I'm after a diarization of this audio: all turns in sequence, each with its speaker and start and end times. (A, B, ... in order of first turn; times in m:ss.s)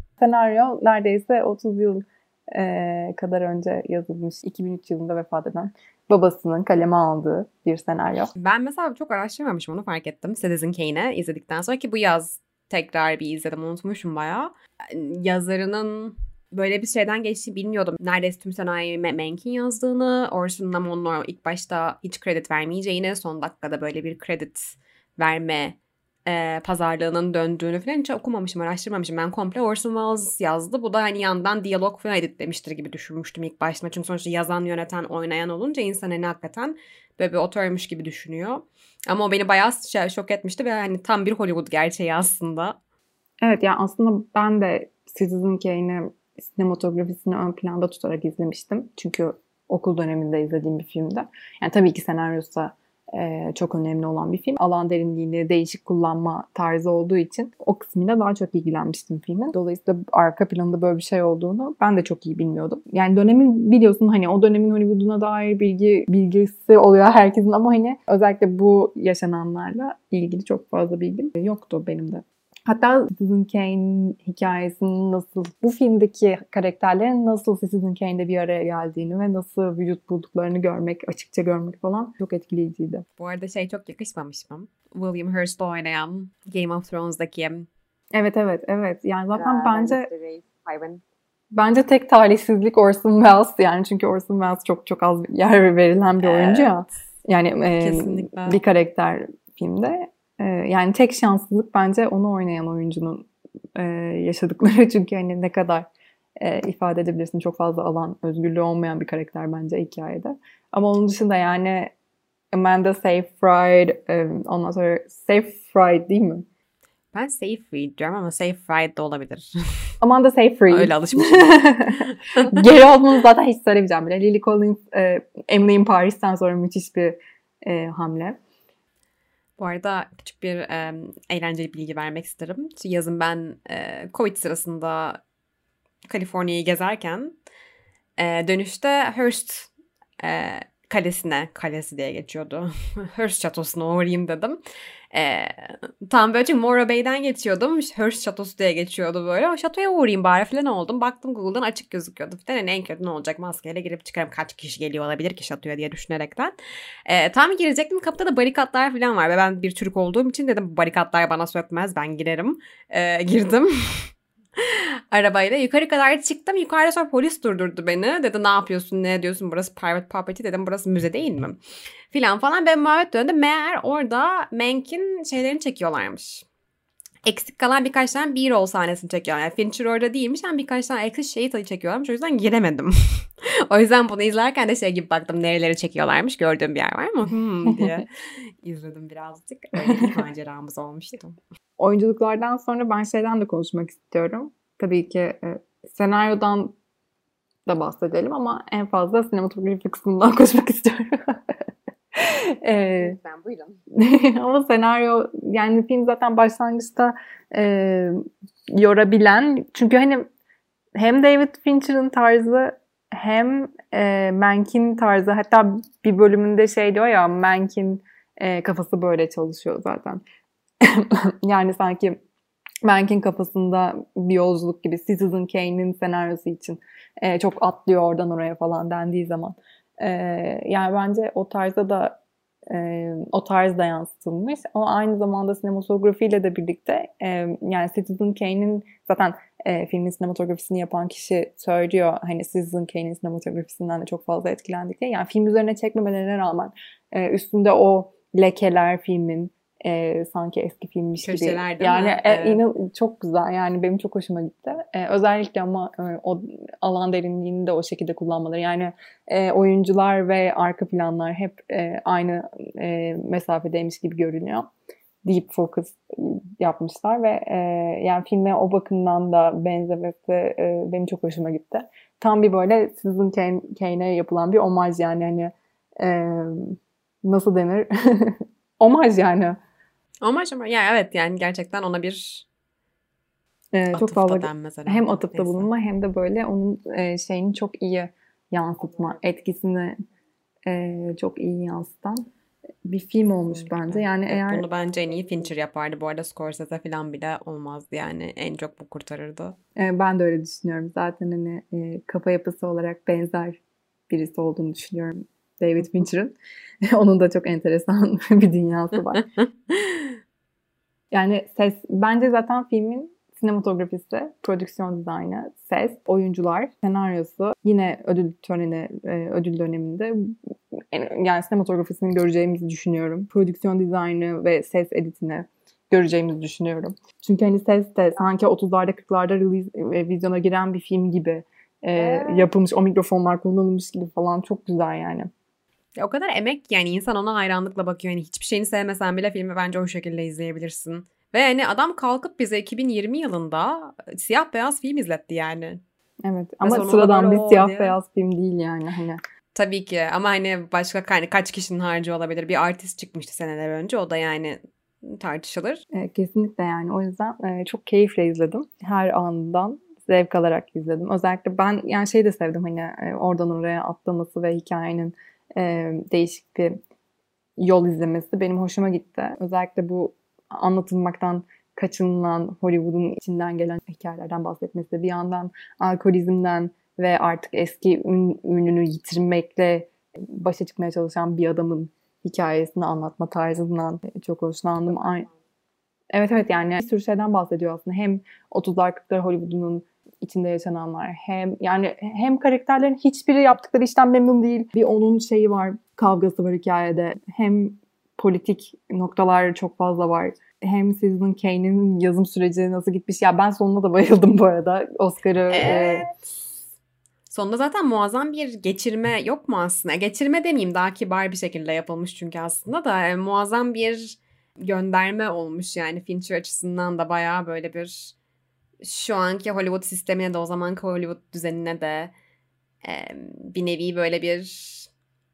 0:00.2-0:08.3 A
0:08.4-0:42.8 B
0:43.4-1:23.0 A
1:23.2-1:27.7 B
1:28.1-1:30.1 A
1:29.3-1:31.0 B
1:31.5-1:45.9 A
1:36.2-1:36.8 B
1:37.8-1:38.6 B
1:46.4-1:51.9 A
1:52.5-1:56.4 A
1:57.1-1:59.5 B
2:00.0-2:08.4 A
2:00.7-2:02.4 B
2:09.6-2:15.2 B
2:16.0-2:17.4 B
2:18.2-2:24.6 B
2:25.1-2:56.4 B
2:57.2-3:11.4 B
3:11.8-3:16.7 A
3:17.6-3:21.4 A
3:22.2-3:23.2 A
3:23.0-3:23.8 B
3:23.9-3:30.3 A
3:31.0-3:40.2 A
3:40.8-3:42.2 A
3:42.8-3:52.2 A
3:52.7-4:24.7 A
4:11.2-4:12.6 B
4:25.2-4:39.6 A
4:40.2-4:42.4 B
4:43.7-4:50.0 A
4:43.9-4:45.7 B
4:50.6-4:52.2 A
4:52.8-4:54.6 A
4:53.5-4:59.6 B
4:59.8-5:06.4 A
5:06.9-5:09.2 A
5:09.4-5:10.2 B
5:11.1-5:20.3 A
5:20.9-5:35.3 A
5:32.0-5:32.5 B
5:36.0-5:45.8 B
5:46.2-5:49.2 A
5:46.6-5:48.0 B
5:49.5-5:55.8 B
5:55.9-6:06.8 A
6:07.6-6:25.3 A
6:26.1-6:46.0 A
6:45.5-6:46.1 B
6:47.3-6:58.1 B
6:58.8-7:02.1 B
7:02.8-7:04.9 B